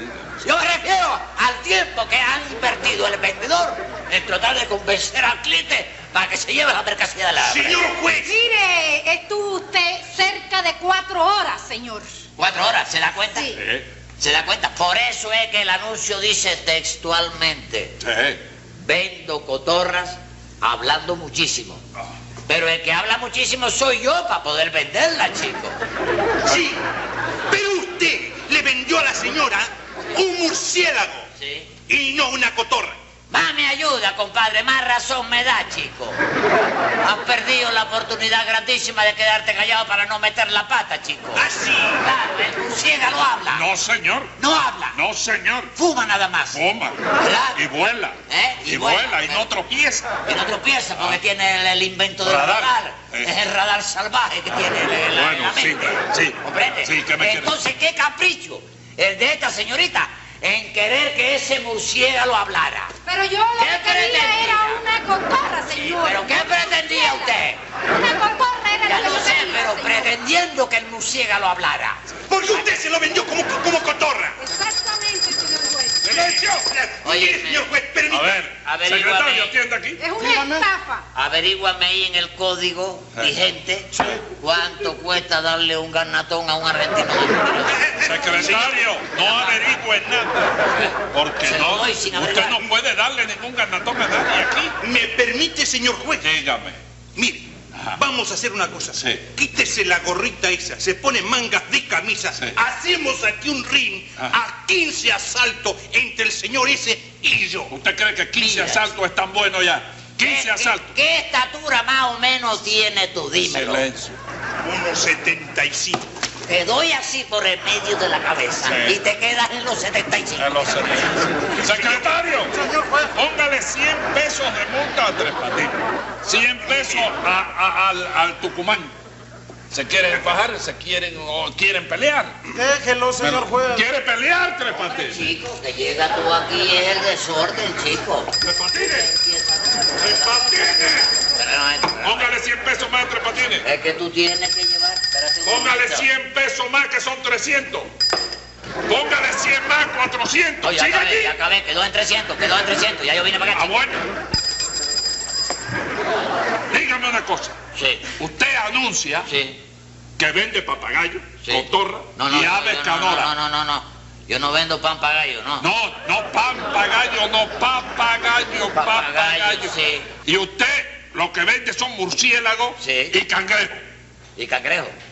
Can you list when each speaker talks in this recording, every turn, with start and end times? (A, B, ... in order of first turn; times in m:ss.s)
0:00.4-0:07.9 A
0:07.4-0:08.4 B
0:08.2-0:12.1 C
0:12.4-0:13.6 A
0:13.6-0:13.9 D
0:14.2-0:18.0 A
0:18.0-0:18.4 D
0:18.8-0:21.8 A
0:22.5-0:25.8 A
0:26.4-0:26.8 B
0:27.5-0:31.3 B
0:31.4-0:31.7 A
0:31.9-0:33.0 B
0:33.3-0:36.2 A
0:37.0-0:41.5 A
0:41.3-0:42.0 B
0:42.0-0:43.6 A
0:43.5-0:44.3 D
0:44.4-0:45.0 A
0:44.9-0:45.7 D
0:45.8-0:46.6 A
0:46.5-0:50.2 D
0:47.2-0:47.6 A
0:48.3-0:49.5 A
0:50.3-1:02.9 A
0:52.2-0:53.3 D
0:55.1-0:57.5 D
1:03.1-1:10.1 C
1:03.6-1:04.8 A
1:05.7-1:07.6 A
1:08.9-1:12.0 A
1:12.3-1:14.4 B
1:14.4-1:16.1 C
1:16.0-1:16.7 D
1:16.0-1:18.5 B
1:17.0-1:17.7 A
1:18.1-1:20.0 D
1:18.6-1:19.5 A
1:20.0-1:21.1 C
1:20.2-1:20.7 E
1:21.1-1:27.9 A
1:23.9-1:24.2 D
1:28.0-1:34.8 D
1:28.4-1:28.8 B
1:30.7-1:32.6 A
1:34.8-1:36.3 B
1:36.2-1:36.8 D
1:37.2-1:47.7 B
1:39.0-1:39.2 D
1:47.7-1:51.0 D
1:48.4-1:48.8 A
1:50.2-1:53.8 A
1:53.4-1:54.2 D
1:54.6-1:56.0 B
1:56.4-2:00.8 A
1:58.6-1:59.0 D
2:00.4-2:02.6 D
2:01.7-2:02.1 B
2:02.5-2:03.1 E
2:03.1-2:08.9 D
2:06.7-2:07.1 B
2:09.7-2:12.4 D
2:12.5-2:13.9 E
2:13.2-2:15.3 D
2:14.7-2:22.3 A
2:18.4-2:19.1 D
2:20.0-2:21.1 D
2:22.0-2:23.7 D
2:23.6-2:26.1 A
2:25.4-2:27.9 D
2:28.9-2:31.3 D
2:30.6-2:33.7 A
2:33.5-2:34.0 D
2:36.7-2:37.6 D
2:37.8-2:38.1 A
2:38.2-2:39.3 D
2:39.3-2:39.6 A
2:40.2-2:43.3 D
2:41.4-2:45.6 A
2:45.6-2:53.8 D
2:48.7-2:50.1 A
2:52.8-2:53.2 A
2:54.4-2:55.0 A